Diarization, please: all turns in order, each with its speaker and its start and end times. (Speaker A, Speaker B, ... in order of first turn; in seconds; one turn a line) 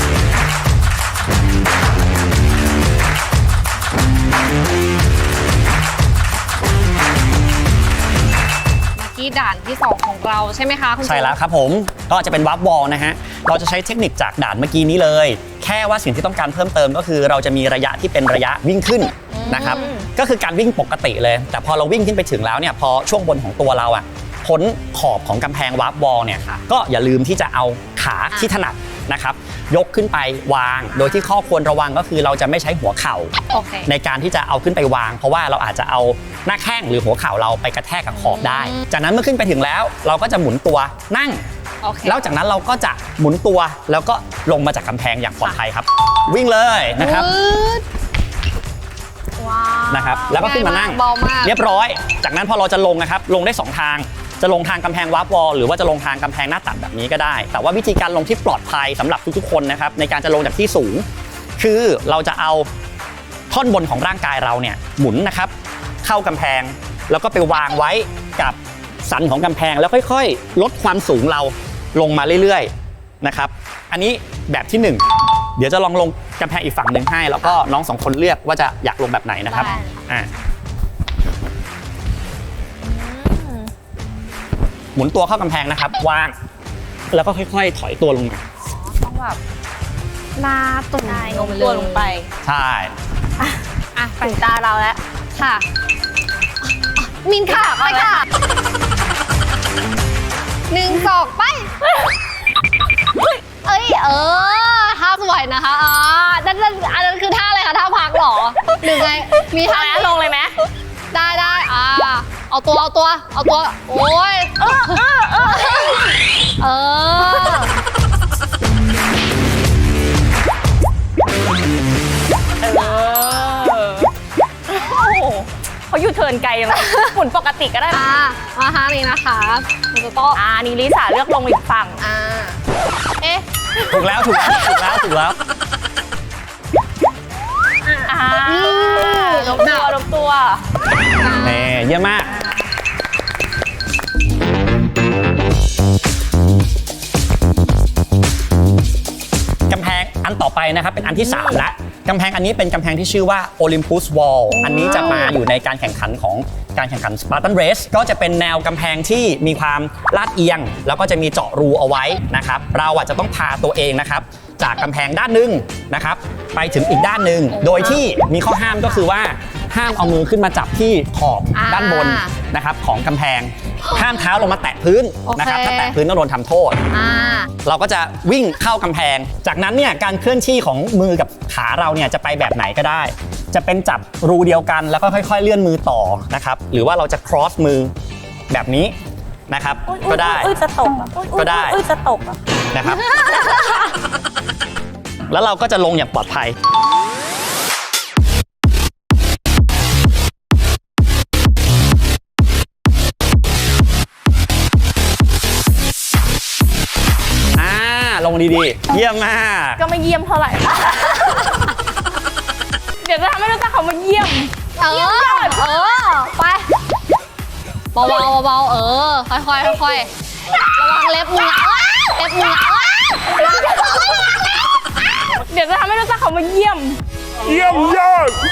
Speaker A: 9.0-11.4
Speaker B: 11.0-33.4
Speaker A: 19.3-19.9
Speaker C: 19.5-20.1
Speaker A: 30.9-31.3
Speaker A: 33.5-33.9
Speaker B: 33.9-41.4
Speaker A: 38.1-38.9
Speaker A: 41.8-42.3
Speaker B: 42.0-47.3
Speaker A: 47.0-47.9
Speaker A: 49.4-51.5
Speaker B: 49.9-61.0
Speaker B: 61.6-62.7
Speaker B: 63.5-65.5
Speaker B: 66.0-72.7
Speaker B: 73.2-75.0
Speaker B: 75.6-80.3
Speaker A: 79.5-80.0
Speaker C: 82.8-83.7
Speaker B: 85.0-86.3
Speaker B: 87.1-88.4
Speaker C: 88.9-89.4
Speaker A: 90.4-92.2
Speaker C: 91.0-92.3
Speaker B: 92.4-92.9
Speaker A: 94.0-94.4
Speaker C: 94.2-95.0
Speaker A: 95.4-95.7
Speaker A: 96.9-98.3
Speaker C: 97.5-98.2
Speaker A: 100.7-101.7
Speaker A: 103.6-110.2
Speaker C: 108.9-110.6
Speaker A: 111.1-117.7
Speaker C: 114.6-116.3
Speaker C: 122.6-124.1
Speaker C: 124.7-128.1
Speaker A: 126.7-127.1
Speaker A: 127.9-130.4
Speaker C: 130.3-132.0
Speaker A: 132.0-132.6
Speaker B: 133.9-135.4
Speaker A: 134.3-135.0
Speaker A: 137.8-139.9
Speaker C: 138.1-140.6
Speaker A: 141.2-141.7
Speaker B: 141.4-142.3
Speaker B: 149.7-176.8
Speaker C: 151.3-151.6
Speaker C: 154.5-155.4
Speaker A: 167.5-168.0
Speaker A: 171.5-172.3
Speaker A: 173.8-174.2
Speaker A: 175.3-176.0
Speaker A: 176.9-177.5
Speaker B: 177.6-187.9
Speaker B: 188.5-188.9
Speaker B: 189.5-190.6
Speaker C: 189.9-192.4
Speaker B: 191.3-191.8
Speaker B: 192.7-193.1
Speaker A: 193.1-193.5
Speaker B: 195.3-196.6
Speaker B: 207.6-209.8
Speaker C: 209.8-211.4
Speaker C: 213.0-215.7
Speaker A: 214.8-216.7
Speaker A: 217.9-220.1
Speaker A: 220.7-224.3
Speaker C: 223.4-223.7
Speaker C: 225.4-228.2